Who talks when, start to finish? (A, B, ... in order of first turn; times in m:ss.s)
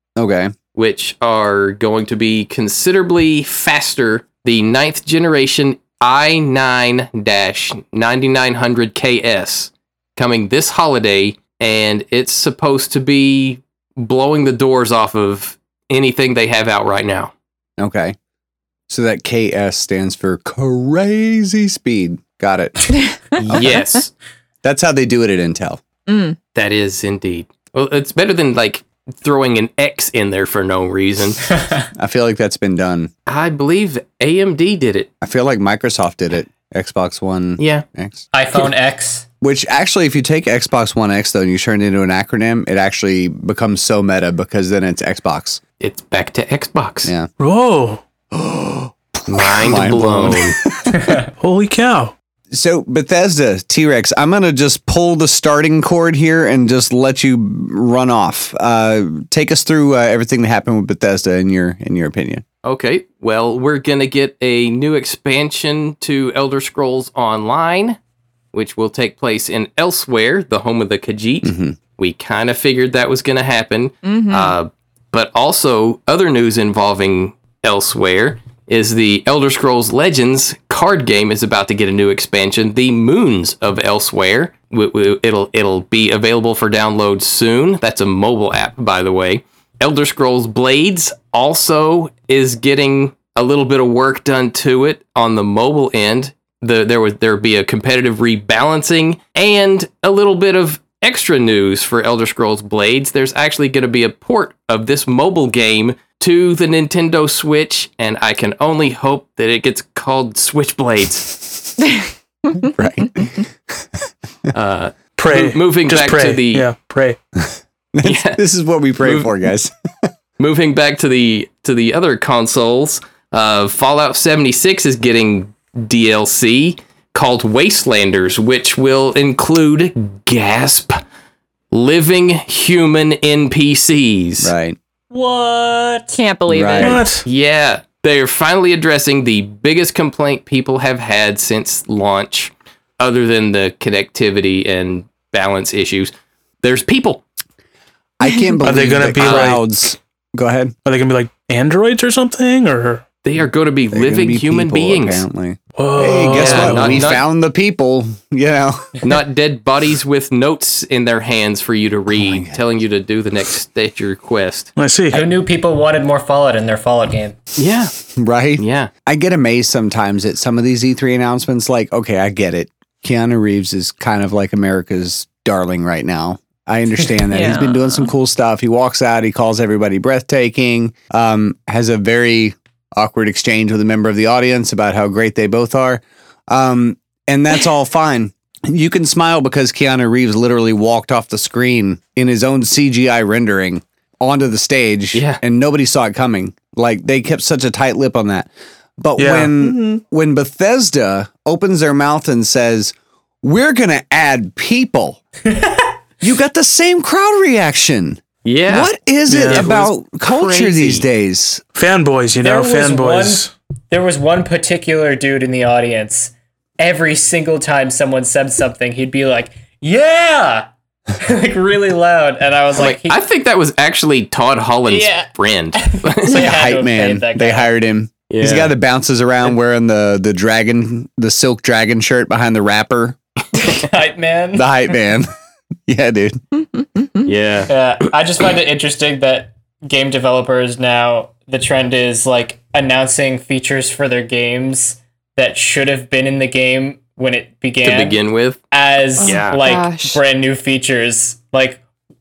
0:00.2-0:00.5 A
0:00.7-0:17.3 B
0:17.8-0:18.2 A
0:18.9-0:23.7 A
0:23.1-0:23.8 C
0:23.4-0:24.1 B
0:24.6-0:25.8 A
0:26.1-0:26.4 C
0:26.5-0:31.5 B
0:31.9-0:33.1 A
0:33.3-0:35.1 B
0:35.2-0:38.2 A
0:37.6-0:37.8 B
0:38.3-0:39.2 D
0:39.4-0:45.6 A
0:45.8-0:47.1 B
0:47.4-0:48.0 E
0:48.3-0:51.2 A
0:49.3-0:50.6 B
0:51.4-0:52.1 E
0:52.5-1:02.4 A
1:02.6-1:08.0 B
1:08.5-1:51.4 B
1:11.4-1:11.8 A
1:14.0-1:14.6 C
1:51.8-1:52.7 C
1:52.6-1:54.5 A
1:54.5-1:56.6 B
1:55.2-1:57.2 E
1:57.9-2:00.1 A
1:58.0-1:58.4 B
1:59.0-1:59.3 B
2:00.4-2:11.0 B
2:11.7-2:14.5 B
2:14.4-2:14.8 A
2:15.1-2:16.2 D
2:16.1-2:17.1 C
2:16.5-2:17.0 A
2:16.8-2:17.2 E
2:17.2-2:26.1 B
2:26.6-2:27.2 B
2:28.2-2:30.7 A
2:28.6-2:29.6 E
2:29.2-2:29.6 B
2:30.8-2:33.0 E
2:33.2-2:35.2 B
2:33.9-2:38.9 A
2:35.8-2:37.1 E
2:36.3-2:37.2 B
2:39.0-2:44.7 B
2:42.1-2:42.6 A
2:44.8-2:45.2 E
2:45.1-2:47.4 D
2:47.6-2:47.9 B
2:48.1-3:25.2 A
2:48.6-2:48.9 B
2:57.3-2:58.1 C
3:15.1-3:15.4 B
3:19.2-3:19.5 E
3:25.4-3:25.9 D
3:26.2-3:31.6 A
3:28.4-3:28.9 B
3:29.3-3:29.7 E
3:29.5-3:31.1 B
3:31.7-3:33.5 E
3:32.4-3:40.7 D
3:41.2-3:43.2 D
3:42.8-3:46.4 B
3:44.9-3:47.7 D
3:46.3-3:53.2 A
3:48.3-3:48.7 B
3:53.6-3:54.7 D
3:54.5-3:55.3 A
3:55.9-3:56.4 A
3:57.2-3:57.7 B
3:57.7-4:08.2 D
4:07.8-4:08.6 B
4:08.7-4:11.8 D
4:09.2-4:10.2 C
4:09.2-4:09.6 B